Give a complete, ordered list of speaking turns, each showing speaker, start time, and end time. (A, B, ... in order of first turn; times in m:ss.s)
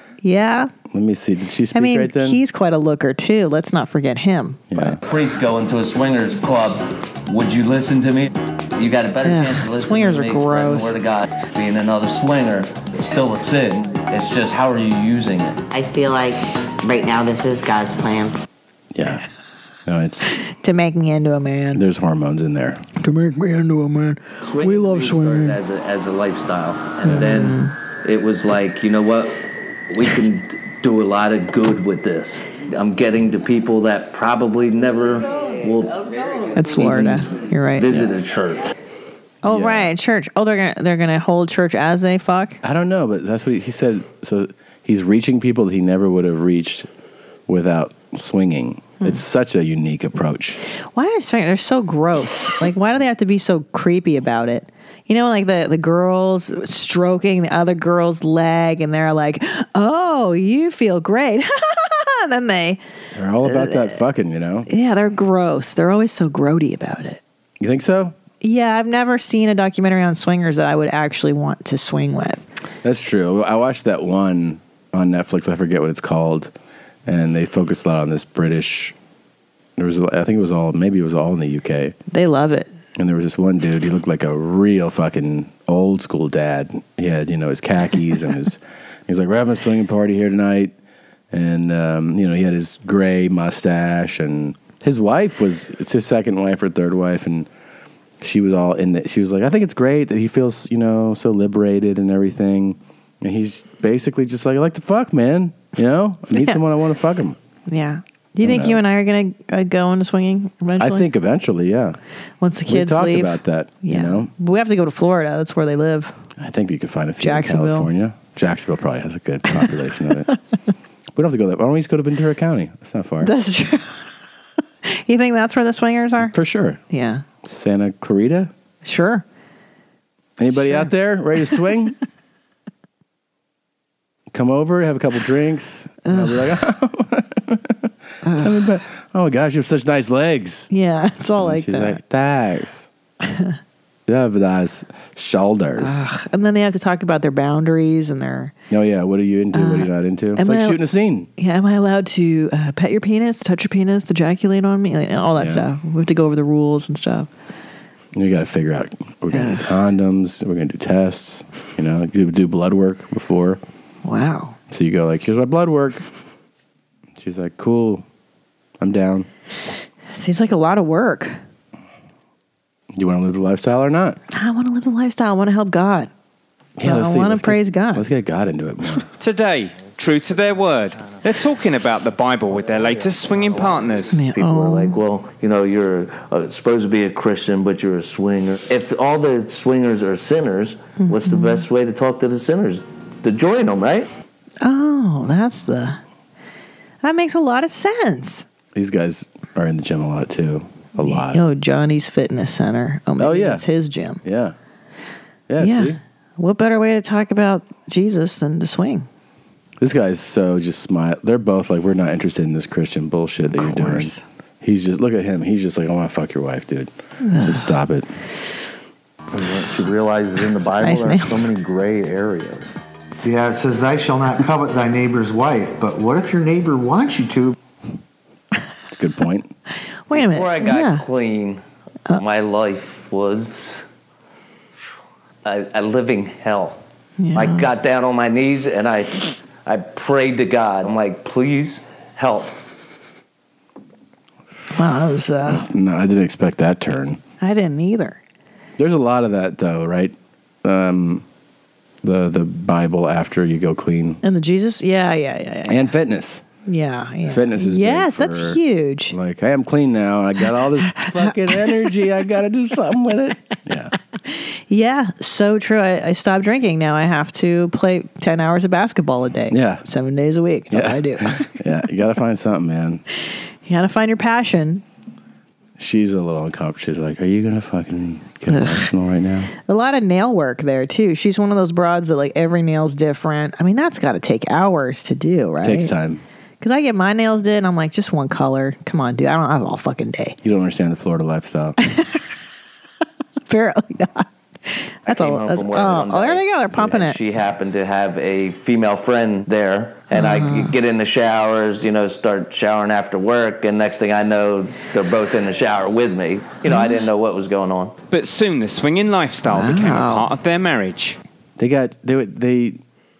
0:00.2-0:00.7 A
0:00.9-0:02.4 B
0:01.7-0:05.0 A
0:04.7-0:05.0 B
0:05.0-0:15.6 C
0:09.2-0:11.0 A
0:15.7-0:18.4 D
0:18.9-0:19.2 B
0:19.8-0:20.3 B
0:20.4-0:21.8 A
0:21.7-0:22.8 B
0:23.0-0:25.6 A
0:24.4-0:38.7 C
0:27.0-0:27.7 A
0:36.5-0:37.9 A
0:39.4-0:42.6 A
0:39.4-0:39.9 B
0:42.6-0:46.9 B
0:47.5-0:50.6 B
0:50.8-1:02.8 A
1:03.1-1:04.7 B
1:03.4-1:03.9 A
1:04.7-1:07.2 A
1:07.6-1:08.1 B
1:08.4-1:12.5 A
1:12.8-1:16.5 B
1:17.0-1:18.9 B
1:19.8-1:22.0 B
1:22.1-1:22.7 A
1:23.0-1:30.7 B
1:31.3-1:37.5 B
1:38.2-1:47.4 B
1:46.3-1:46.6 A
1:47.7-1:51.1 A
1:48.4-1:48.8 B
1:50.8-1:52.0 B
1:52.4-1:56.1 A
1:52.7-1:54.3 B
1:56.4-2:00.3 B
1:57.2-1:57.9 A
2:01.1-2:03.3 B
2:03.2-2:04.1 A
2:04.8-2:06.3 A
2:06.2-2:06.8 B
2:06.9-2:07.2 A
2:07.4-2:08.5 B
2:08.8-2:09.2 A
2:10.4-2:11.9 B
2:10.5-2:10.9 A
2:14.3-2:20.7 B
2:16.0-2:16.4 A
2:18.2-2:18.5 A
2:20.7-2:22.0 A
2:21.4-2:22.9 B
2:23.2-2:23.6 A
2:24.1-2:26.0 B
2:25.8-2:28.5 A
2:28.7-2:31.3 B
2:29.5-2:30.8 A
2:31.4-2:37.3 A
2:35.4-2:35.6 B
2:38.1-2:43.6 B
2:39.3-2:39.7 A
2:44.0-2:44.6 A
2:44.7-2:46.0 B
2:47.2-2:48.0 B
2:48.8-2:49.3 B
2:50.1-2:51.4 A
2:52.9-2:54.2 B
2:54.3-2:56.1 A
2:56.8-2:59.1 B
2:56.8-2:58.0 A
2:59.2-3:04.2 E
3:04.1-3:05.0 A
3:04.2-3:14.1 C
3:11.0-3:11.6 A
3:14.6-3:16.0 A
3:17.0-3:18.4 A
3:18.7-3:21.4 B
3:21.0-3:24.2 A
3:23.2-3:23.6 B
3:24.2-3:24.6 B
3:25.5-3:26.0 B
3:25.6-3:29.1 A
3:29.8-3:38.1 B
3:33.5-3:34.2 A
3:37.2-3:37.7 A
3:39.3-3:47.6 F
3:40.8-3:41.5 A
3:48.9-3:49.5 B
3:50.1-3:51.0 A
3:50.1-3:53.8 C
3:55.4-3:56.8 C
3:57.2-3:57.7 A
3:57.3-4:02.6 C
4:04.7-4:05.6 A
4:05.4-4:07.2 B
4:07.4-4:08.2 A
4:08.8-4:11.2 B
4:12.0-4:14.2 B
4:14.2-4:15.9 A
4:15.7-4:16.4 B
4:16.6-4:19.1 A
4:17.2-4:18.6 B
4:19.1-4:23.9 B
4:20.9-4:21.9 A
4:24.2-4:31.5 A
4:29.5-4:29.8 B
4:30.7-4:33.0 B
4:33.6-4:34.8 A
4:35.8-4:39.5 B
4:38.5-4:38.9 A
4:39.6-4:45.9 A
4:45.6-4:46.2 B
4:46.6-4:50.4 A
4:50.4-4:51.8 B
4:51.8-4:52.3 A
4:53.5-4:57.2 A
4:55.0-5:07.9 C
5:00.1-5:00.7 A
5:06.6-5:07.0 A
5:08.1-5:11.2 E
5:09.5-5:10.3 A
5:11.6-5:12.8 B